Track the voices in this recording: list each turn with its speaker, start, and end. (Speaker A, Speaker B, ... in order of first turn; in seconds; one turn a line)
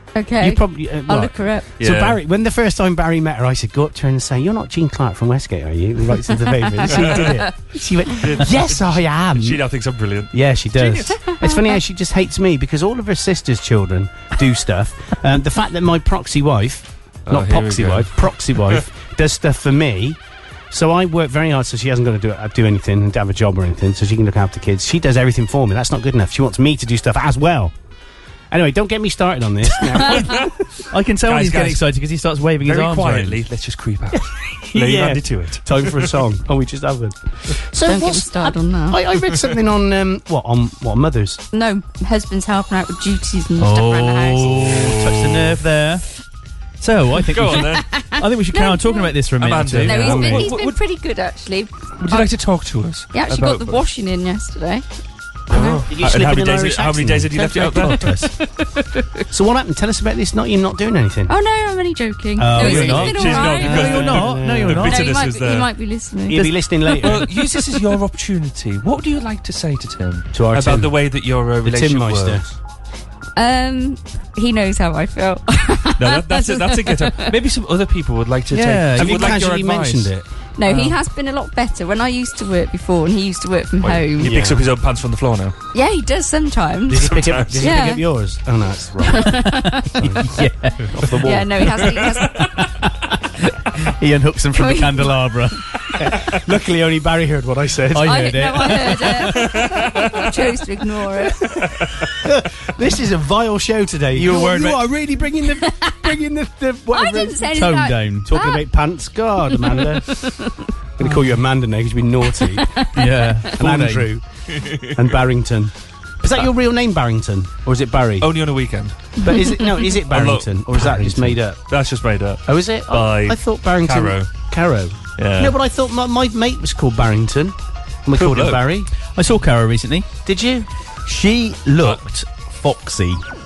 Speaker A: 0.1-1.7
Speaker B: 0.4-9.6
Speaker C: 1.8-2.2
Speaker A: 6.8-7.5
Speaker C: 6.8-7.4
Speaker C: 8.2-11.2
Speaker B: 10.3-20.2
Speaker A: 11.2-11.8
Speaker C: 17.3-18.8
Speaker B: 20.7-27.7
Speaker B: 28.5-30.5
Speaker C: 30.1-30.4
Speaker D: 30.9-33.4
Speaker C: 31.2-31.8
Speaker C: 32.6-36.0
Speaker B: 34.7-41.4
Speaker A: 37.8-39.0
Speaker A: 41.5-44.7
Speaker D: 43.6-46.0
Speaker D: 46.8-50.5
Speaker C: 47.3-47.9
Speaker A: 47.8-52.3
Speaker C: 49.4-50.8
Speaker B: 50.0-50.5
Speaker C: 52.0-53.8
Speaker A: 53.1-54.8
Speaker B: 55.5-58.3
Speaker A: 55.5-55.8
Speaker C: 55.6-58.2
Speaker A: 59.0-59.2
Speaker B: 59.3-61.3
Speaker A: 61.3-64.0
Speaker B: 62.4-64.9
Speaker D: 62.4-65.2
Speaker C: 62.6-65.7
Speaker A: 64.9-66.7
Speaker B: 66.3-67.3
Speaker C: 67.0-72.4
Speaker B: 70.3-70.9
Speaker B: 71.6-72.5
Speaker A: 73.4-77.3
Speaker C: 76.0-80.1
Speaker D: 78.5-79.4
Speaker B: 79.0-80.9
Speaker A: 80.6-84.4
Speaker C: 83.8-85.5
Speaker B: 84.2-84.6
Speaker A: 85.7-88.1
Speaker B: 86.9-89.5
Speaker C: 87.0-87.8
Speaker A: 89.0-89.9
Speaker D: 89.5-91.0
Speaker B: 90.0-90.3
Speaker B: 90.9-92.0
Speaker A: 91.2-92.5
Speaker D: 93.7-95.6
Speaker A: 94.5-95.3
Speaker B: 96.0-99.5
Speaker D: 97.9-99.6
Speaker A: 98.0-101.5
Speaker B: 102.2-107.5
Speaker D: 104.1-104.9
Speaker A: 106.9-108.6
Speaker D: 107.5-108.3
Speaker B: 108.2-110.3
Speaker A: 109.5-110.5
Speaker B: 111.0-112.7
Speaker A: 112.4-113.0
Speaker D: 112.9-114.1
Speaker B: 113.6-114.2
Speaker C: 114.5-114.8
Speaker B: 114.9-118.3
Speaker C: 118.2-118.9
Speaker A: 119.2-120.0
Speaker B: 119.2-121.6
Speaker C: 120.0-121.2
Speaker D: 120.8-121.4
Speaker C: 121.7-124.3
Speaker B: 122.5-128.9
Speaker C: 125.2-125.5
Speaker C: 128.1-128.6
Speaker D: 129.2-130.1
Speaker B: 130.3-130.7
Speaker D: 131.1-133.2